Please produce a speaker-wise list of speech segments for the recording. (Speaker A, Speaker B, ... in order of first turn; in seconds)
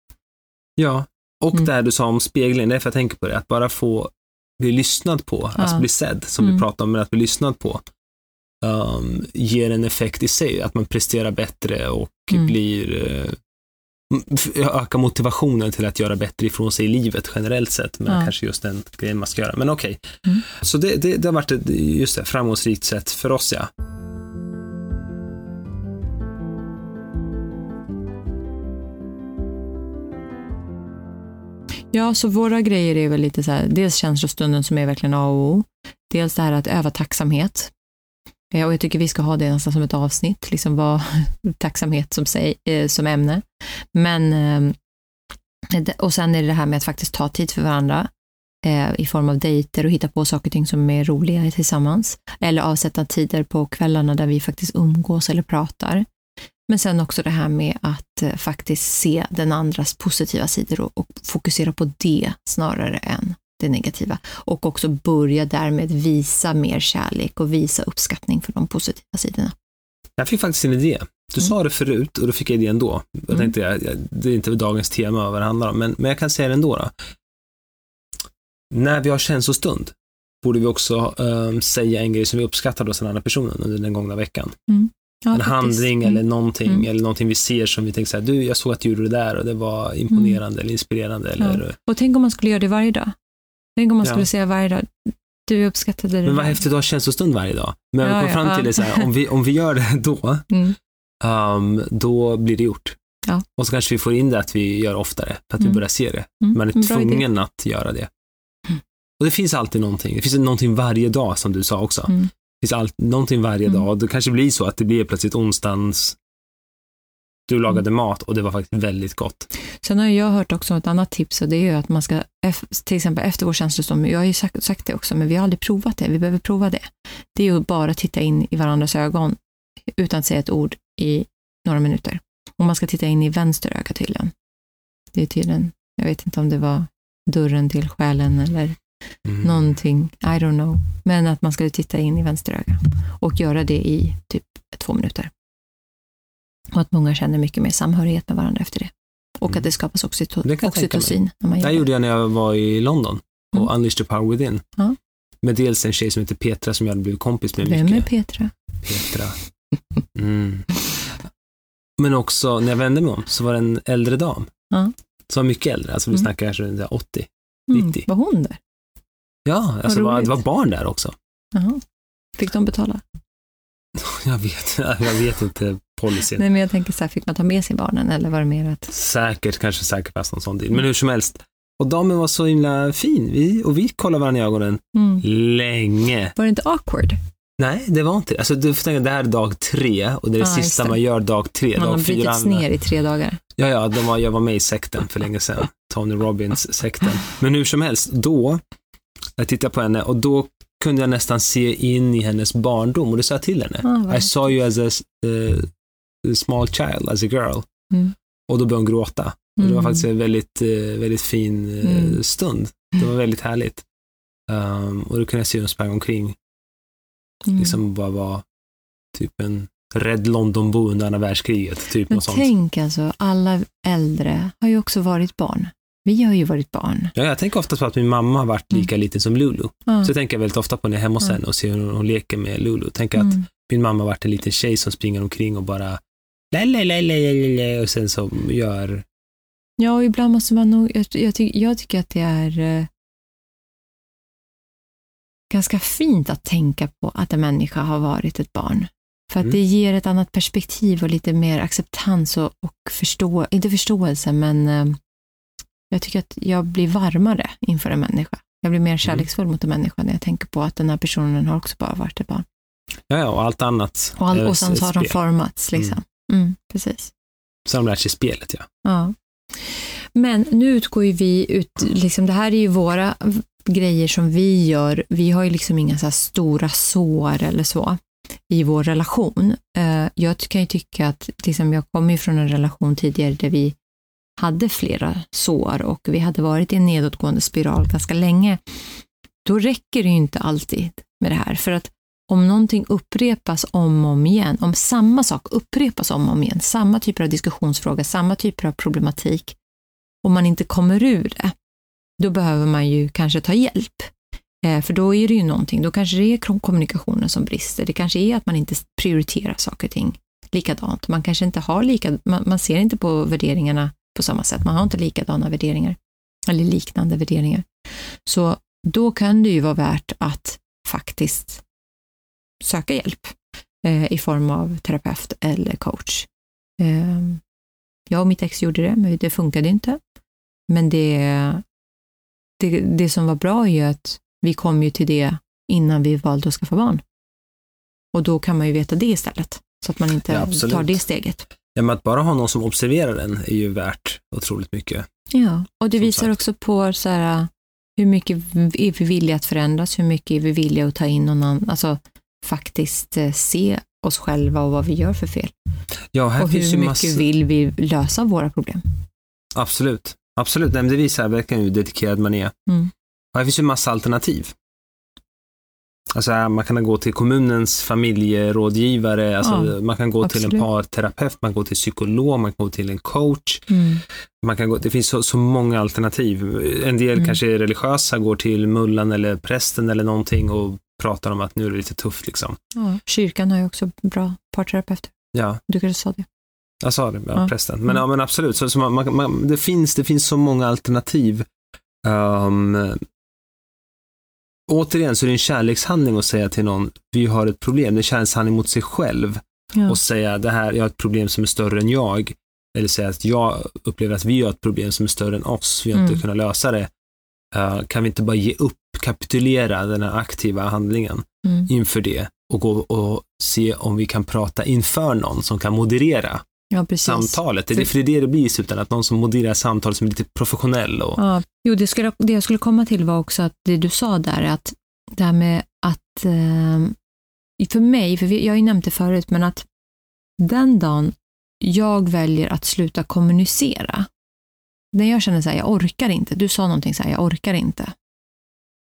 Speaker A: 0.8-7.8, 8.6-13.4, 14.1-23.7, 70.2-76.9, 78.7-84.5, 85.3-91.7, 96.2-100.5, 101.2-103.0, 103.5-108.1, 109.2-116.2, 117.5-119.5, 139.2-139.6, 150.4-154.6, 155.4-158.1, 158.8-159.4, 160.1-161.2, 162.0-164.5, 165.3-168.0, 169.4-171.1, 173.9-176.4, 178.9-186.3, 187.6-192.6, 193.6-198.6, 199.4-205.7, 206.2-207.7, 208.5-213.8, 214.5-216.4, 217.6-218.4, 219.1-222.5, 227.1-236.0, 236.5-239.1, 263.1-265.1, 267.6-268.7, 340.3-341.0, 341.7-345.1, 346.0-346.3, 356.1-357.2, 359.5-362.5, 363.3-364.5, 366.1-373.8, 374.4-382.6, 385.3-385.6, 386.8-391.5, 392.0-393.0, 394.7-406.9, 407.5-416.4, 417.0-421.2
Speaker B: 5.6-5.8, 31.9-37.7, 38.5-44.8, 45.7-48.1, 48.6-56.0, 56.7-69.5, 84.7-86.8, 90.1-90.4, 91.4-93.1, 93.8-96.6, 98.0-99.1, 100.5-100.8, 106.4-107.2, 119.8-129.4, 129.9-134.3, 135.1-138.8, 139.4-145.3, 146.7-151.8, 157.6-158.5, 167.7-168.6, 169.8-170.4, 171.5-171.8, 172.4-173.0, 176.3-178.9, 184.9-185.2, 186.3-187.2, 190.4-191.0, 191.7-193.4, 203.8-204.3, 209.6-210.0, 211.8-212.2, 217.4-217.8, 222.1-227.1, 233.2-233.4, 239.8-242.9, 245.5-255.0, 255.9-262.4, 264.2-267.1, 268.8-283.7, 284.4-288.8, 289.4-299.6, 300.2-301.5, 302.2-304.1, 304.6-317.7, 318.2-321.6, 322.6-326.3, 326.8-327.4, 328.1-330.0, 330.7-331.6, 332.6-337.0, 338.1-341.4, 345.3-355.5, 356.4-358.8, 369.4-370.6, 373.7-374.0, 382.7-386.2, 405.9-406.2, 411.4-411.7, 416.7-417.9, 421.2-426.9, 427.6-429.7, 430.4-434.1, 434.9-437.9